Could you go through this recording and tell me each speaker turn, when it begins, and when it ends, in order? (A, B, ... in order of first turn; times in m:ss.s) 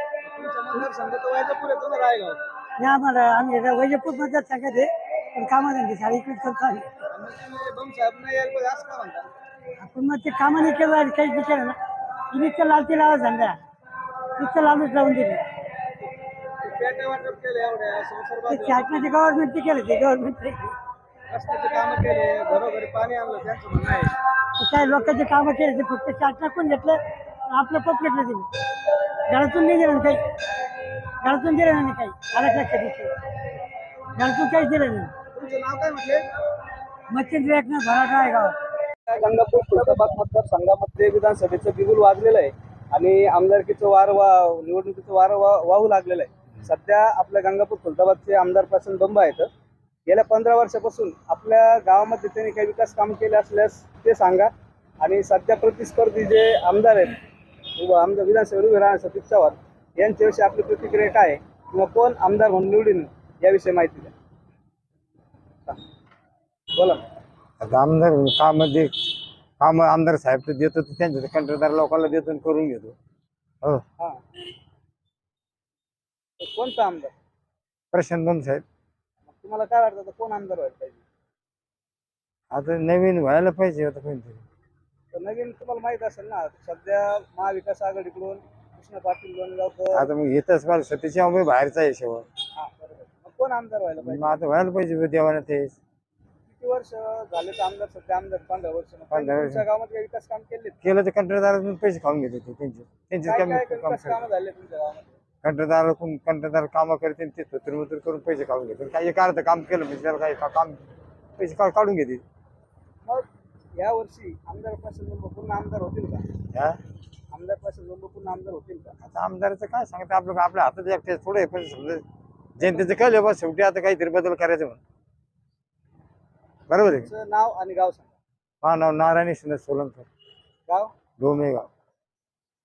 0:00.2-0:02.4 A
0:02.8-0:06.9 B
0:07.1-0:09.3 A
0:09.8-0:11.8 B
0:12.3-0:13.6 B
0:14.4-0:15.4 B
0:16.6-0:19.2 A
0:18.5-0:20.8 B
0:21.3-0:24.1 A
0:24.6-0:27.0 B
0:27.5-0:28.5 B
0:29.3-0:30.2 B
0:31.2-0:33.1 B
0:34.2-0:35.1 B
0:35.4-0:36.2 A
0:37.1-0:38.5 B
0:39.1-0:49.5 A
0:50.1-0:57.2 A
0:57.8-1:04.1 A
1:06.7-1:07.0 A
1:07.6-1:08.9 C
1:09.6-1:12.9 C
1:16.4-1:17.1 A
1:17.9-1:18.6 C
1:19.3-1:21.0 A
1:22.5-1:24.4 C
1:25.1-1:30.1 A
1:29.9-1:32.2 C
1:32.6-1:34.4 A
1:34.0-1:35.8 C
1:36.5-1:40.8 A
1:39.1-1:39.6 C
1:40.8-1:44.2 C
1:43.2-1:45.1 A
1:45.4-1:50.8 C
1:51.4-1:52.2 C
1:53.0-1:56.3 A
1:57.3-1:59.0 A
1:59.0-2:02.0 C
2:02.6-2:04.8 C
2:06.7-2:07.1 C
2:06.9-2:08.1 A
2:08.6-2:10.1 C
2:11.2-2:11.7 C